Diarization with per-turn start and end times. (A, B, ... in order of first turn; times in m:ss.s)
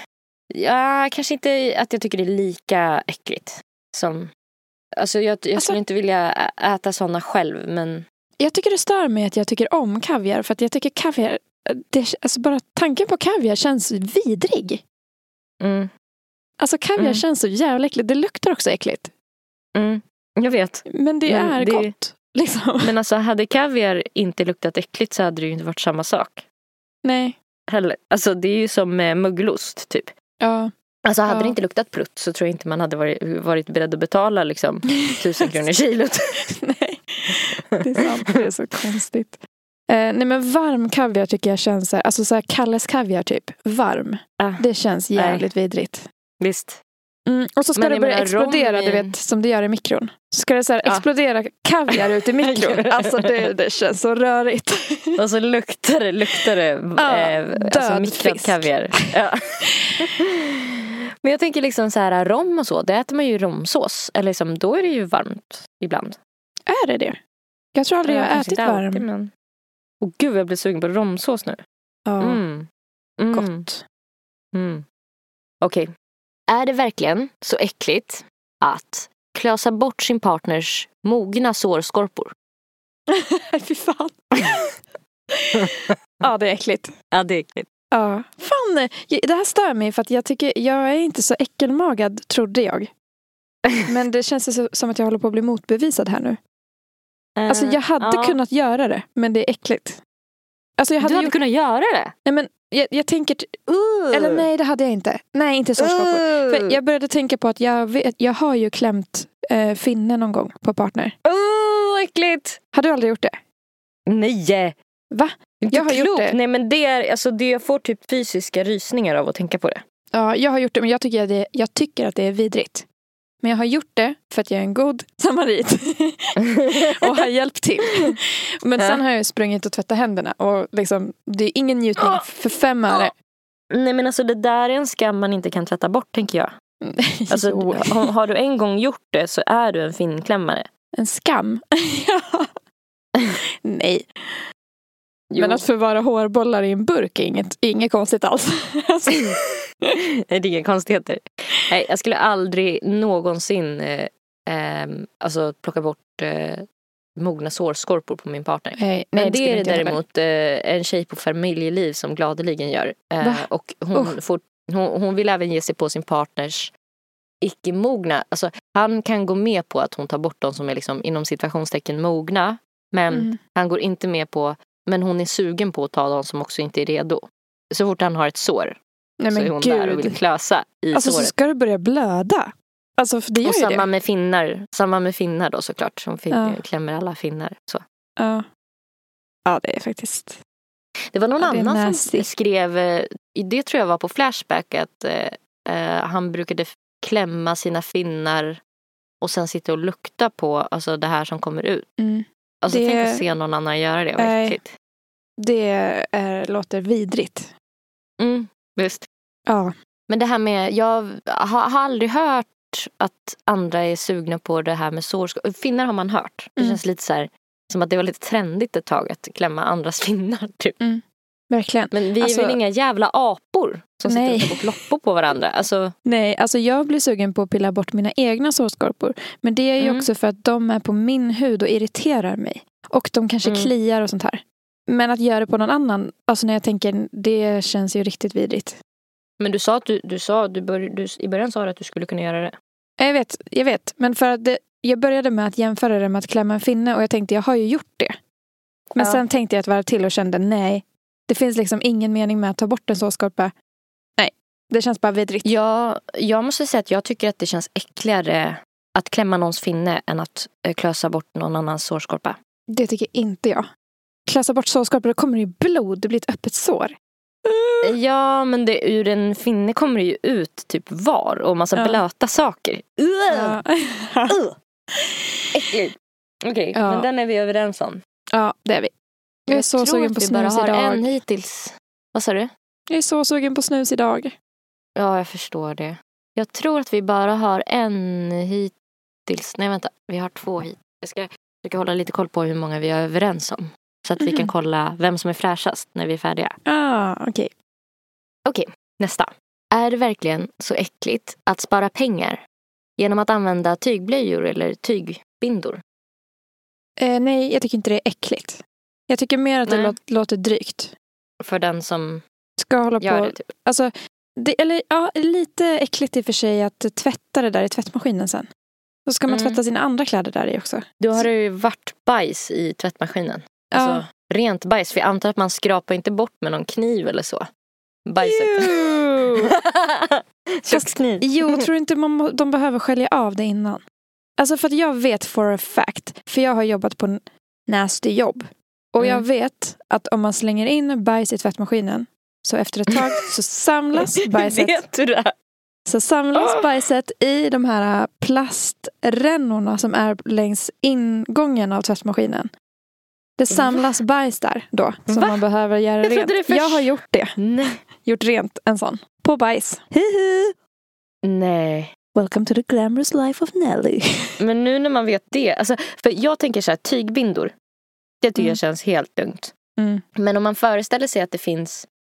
0:00.5-0:04.3 A
0:05.0-0:08.0 A
0:08.4-0:14.8 B
0:15.6-0:15.9 A
0:16.6-0:19.1 B
0:17.0-0:17.2 A
0:19.8-0:21.9 A
0:20.9-0:22.9 B
0:22.8-0:26.4 A
0:27.0-0:27.4 B
0:27.7-0:30.1 A
0:30.4-0:30.7 B
0:31.0-0:36.4 A
0:31.3-0:31.6 B
0:36.6-0:46.0 B
0:45.2-0:45.5 A
0:46.4-0:46.8 A
0:47.3-0:55.2 B
0:47.8-0:49.1 A
0:51.9-0:53.4 A
0:55.2-0:59.4 A
0:57.0-0:59.1 B
0:59.7-1:00.1 B
1:00.0-1:00.2 A
1:01.2-1:06.2 A
1:06.7-1:07.2 B
1:07.8-1:09.0 B
1:08.0-1:09.3 A
1:10.0-1:11.6 A
1:12.1-1:12.4 B
1:12.2-1:12.7 A
1:13.2-1:13.7 A
1:13.3-1:13.8 B
1:14.5-1:14.8 A
1:15.6-1:15.9 A
1:16.5-1:22.3 A
1:23.1-1:24.8 B
1:25.4-1:26.9 B
1:27.1-1:27.7 A
1:27.9-1:32.9 B
1:33.9-1:36.4 B
1:37.4-1:38.4 A
1:37.5-1:40.0 B
1:40.8-1:41.4 B
1:41.0-1:42.1 A
1:42.2-1:43.6 B
1:43.7-1:44.5 A
1:44.1-1:51.2 B
1:45.8-1:46.8 A
1:51.2-1:52.6 A
1:52.7-1:53.4 B
1:54.1-1:54.8 A
1:55.1-1:56.4 B
1:55.6-1:59.8 A
2:00.1-2:02.9 B
2:03.4-2:13.1 B
2:06.4-2:07.2 A
2:13.7-2:16.5 A
2:16.8-2:18.1 B
2:17.3-2:20.7 A
2:21.0-2:22.5 B
2:23.6-2:24.4 B
2:25.3-2:25.6 A
2:25.4-2:29.4 B
2:30.3-2:36.6 A
2:37.2-2:46.7 A
2:38.8-2:40.0 B
2:43.2-2:44.2 B
2:47.4-2:58.8 A
2:53.1-2:53.4 B
2:59.2-3:00.2 B
2:59.3-3:01.3 A
3:00.9-3:03.8 B
3:03.4-3:07.8 A
3:06.3-3:06.6 B
3:08.2-3:08.4 B
3:09.5-3:10.4 B
3:11.1-3:18.6 A
3:11.4-3:12.3 B
3:19.2-3:21.9 A
3:22.0-3:23.2 B
3:22.6-3:24.7 A
3:24.2-3:24.6 B
3:25.4-3:27.5 B
3:28.2-3:29.1 A
3:29.5-3:29.7 B
3:30.1-3:40.8 A
3:40.8-3:42.6 B
3:41.9-3:45.9 A
3:44.1-3:44.8 B
3:46.1-3:58.8 B
3:49.8-3:50.1 A
3:53.4-3:53.7 A
3:59.4-4:02.5 A
4:03.0-4:08.2 B
4:09.0-4:09.2 A
4:09.0-4:13.5 B
4:14.2-4:15.5 B
4:15.4-4:22.4 A
4:22.7-4:23.7 B
4:24.3-4:26.9 B
4:27.4-4:27.9 B
4:27.8-4:33.6 A
4:31.8-4:32.0 B
4:33.3-4:34.4 B
4:34.3-4:34.6 A
4:34.9-4:35.2 B
4:35.5-4:38.0 A
4:36.7-4:37.1 B
4:38.3-4:38.9 B
4:39.5-4:42.5 A
4:39.5-4:41.2 B
4:42.9-4:44.3 B
4:45.0-4:48.7 A
4:49.3-4:56.6 A
4:54.2-4:54.5 B
4:56.7-4:57.5 B
4:58.5-5:02.4 A
5:03.0-5:05.8 A
5:07.0-5:10.9 B
5:09.7-5:10.0 A
5:11.4-5:12.2 A
5:12.6-5:18.5 B
5:13.0-5:13.5 A
5:19.1-5:21.3 B
5:19.3-5:19.6 A
5:21.0-5:27.5 A
5:23.7-5:24.0 B
5:28.1-5:28.8 A
5:28.2-5:29.5 B
5:29.5-5:31.7 A
5:30.7-5:33.8 B
5:34.4-5:44.8 B
5:39.0-5:39.2 A
5:44.2-5:45.3 A
5:45.9-5:52.5 B
5:46.4-5:46.7 A
5:53.4-5:57.4 B
5:53.5-5:53.8 A
5:55.1-5:55.4 A
5:56.0-5:57.8 A
5:58.0-6:00.5 B
6:01.2-6:01.9 A
6:02.1-6:04.3 B
6:04.4-6:07.5 A
6:08.2-6:09.5 A
6:09.8-6:10.0 B
6:10.2-6:11.9 A